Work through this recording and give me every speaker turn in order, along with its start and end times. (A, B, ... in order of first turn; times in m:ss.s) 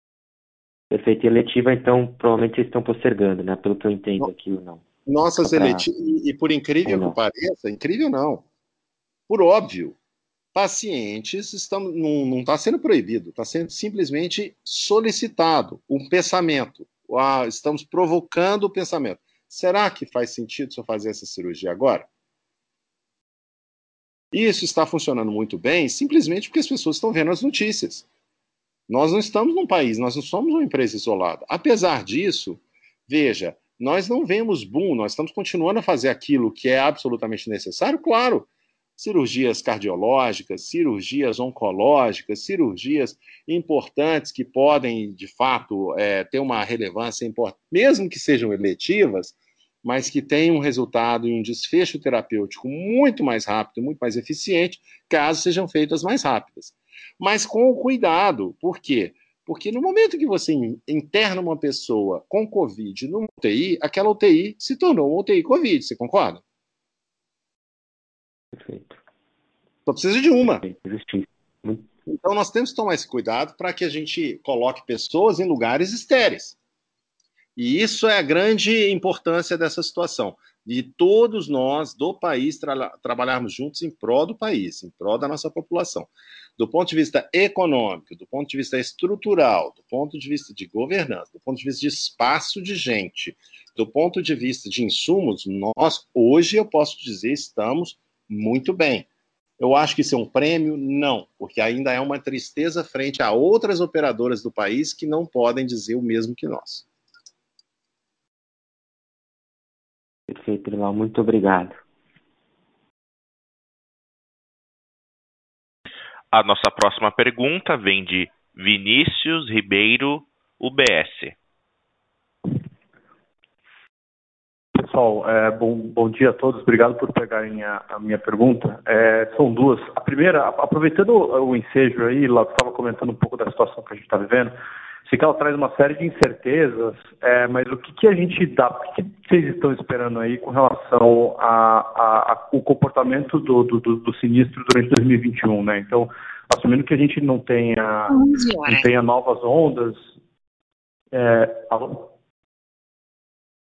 0:00.9-0:04.8 A
0:05.0-0:08.4 B
0:05.5-0:05.8 A
0:06.9-0:07.2 A
0:09.3-0:10.0 B
0:10.5-0:22.1 B
0:24.3-0:28.0 B
0:28.9-0:38.5 B
0:39.0-1:06.4 B
1:08.5-1:09.0 A
1:09.8-1:10.6 B
1:10.6-1:11.9 A
1:12.1-1:16.6 B
1:17.6-1:39.1 B
1:39.6-1:46.8 B
1:50.3-1:51.8 A
1:56.3-2:01.3 C
2:04.7-2:30.1 D
2:31.1-2:32.1 D